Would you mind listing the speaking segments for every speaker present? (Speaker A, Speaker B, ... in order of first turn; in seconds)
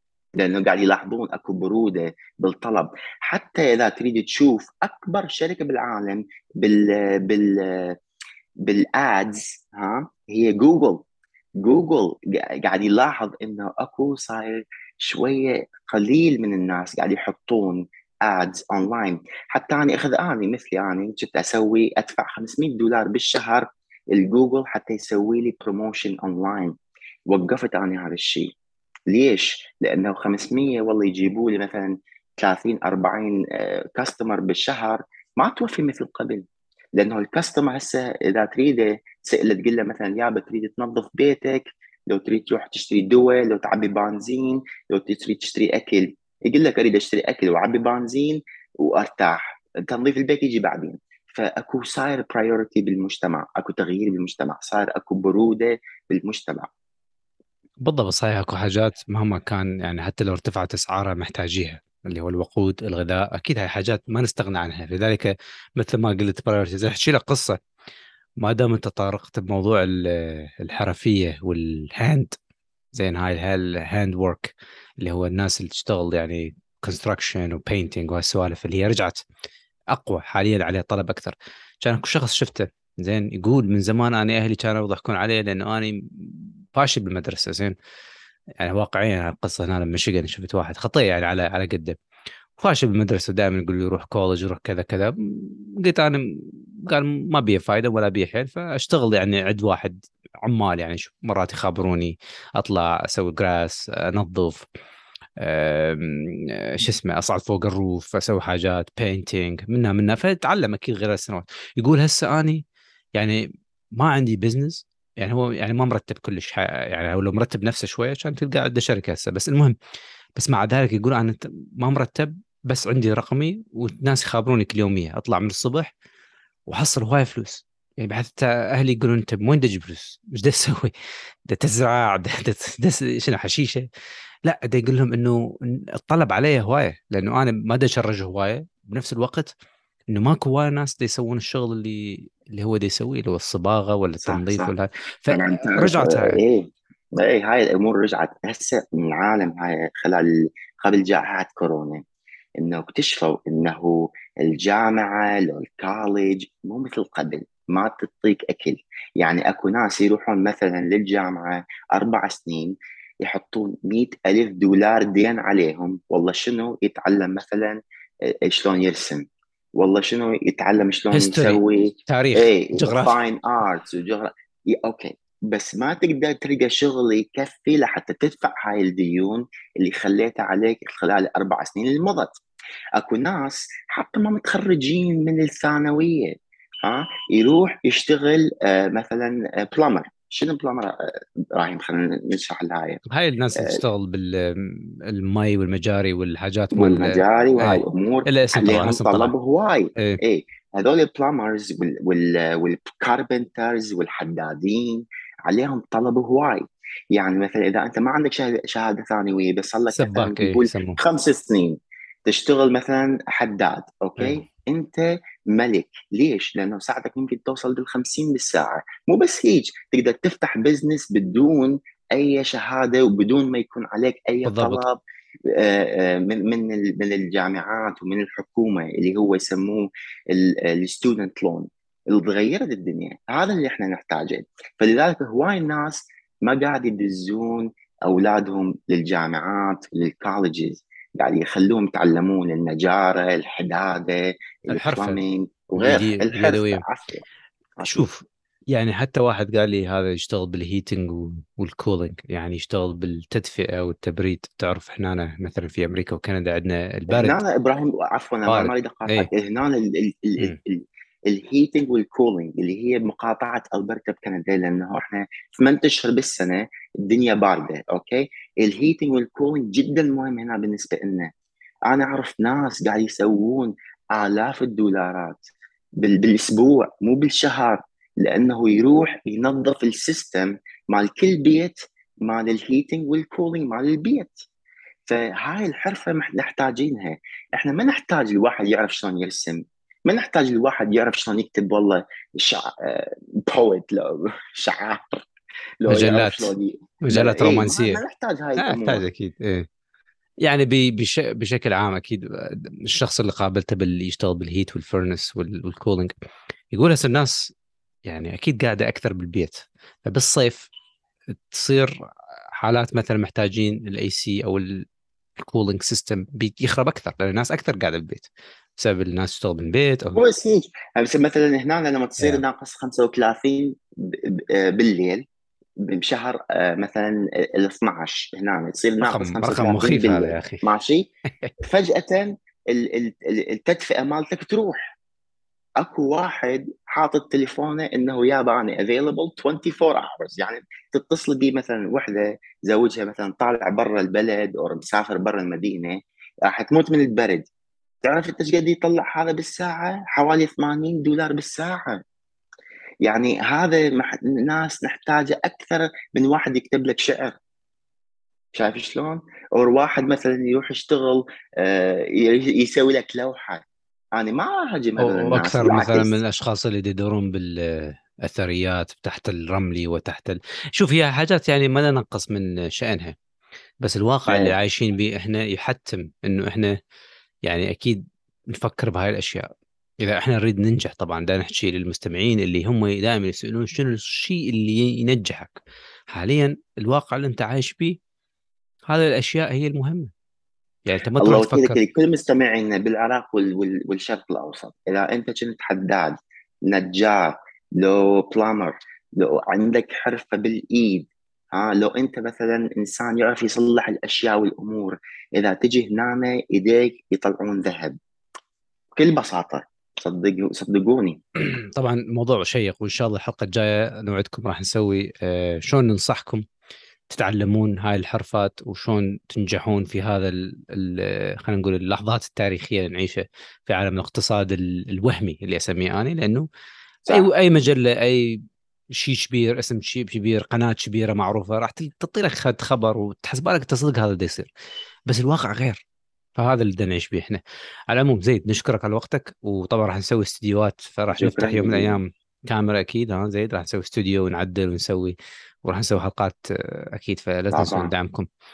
Speaker A: 0.4-8.0, 8.6-11.1, 11.6-26.8, 27.3-28.5, 29.1-56.7, 144.2-144.7, 145.3-152.0, 152.6-169.2, 169.8-182.4, 183.0-193.0, 193.6-193.8, 196.7-247.2, 257.1-271.3, 271.9-284.5, 285.1-295.3, 295.8-299.1, 320.1-325.2, 325.8-335.0, 335.8-347.5, 348.0-352.0, 353.0-357.4, 358.6-366.2, 374.3-374.6, 391.2-408.0, 408.9-411.2, 441.1-442.0, 447.5-447.9
Speaker B: 57.9-67.6, 68.4-72.3, 72.9-79.2, 79.9-87.8, 88.6-92.0, 92.6-104.7, 105.4-112.6, 113.2-113.4, 114.0-119.8, 120.4-125.9, 126.7-130.9, 131.5-133.9, 134.4-139.5, 140.1-146.4, 171.1-173.2, 193.1-199.3, 209.9-211.0, 214.2-214.4, 224.4-224.8, 244.7-245.2, 245.8-246.8, 247.8-257.4, 258.5-259.3, 295.9-296.5, 297.1-298.0, 298.6-299.7, 300.4-306.1, 306.7-307.5, 308.1-310.7, 311.5-311.9, 312.6-314.9, 315.4-320.2, 322.2-322.4, 329.0-330.6, 365.0-373.2, 373.8-376.8, 377.4-379.5, 380.0-385.6, 386.1-388.0, 388.9-390.1, 390.9-391.8, 411.6-416.4, 417.1-426.5, 427.1-428.4, 428.9-434.5, 435.1-435.8, 436.4-448.3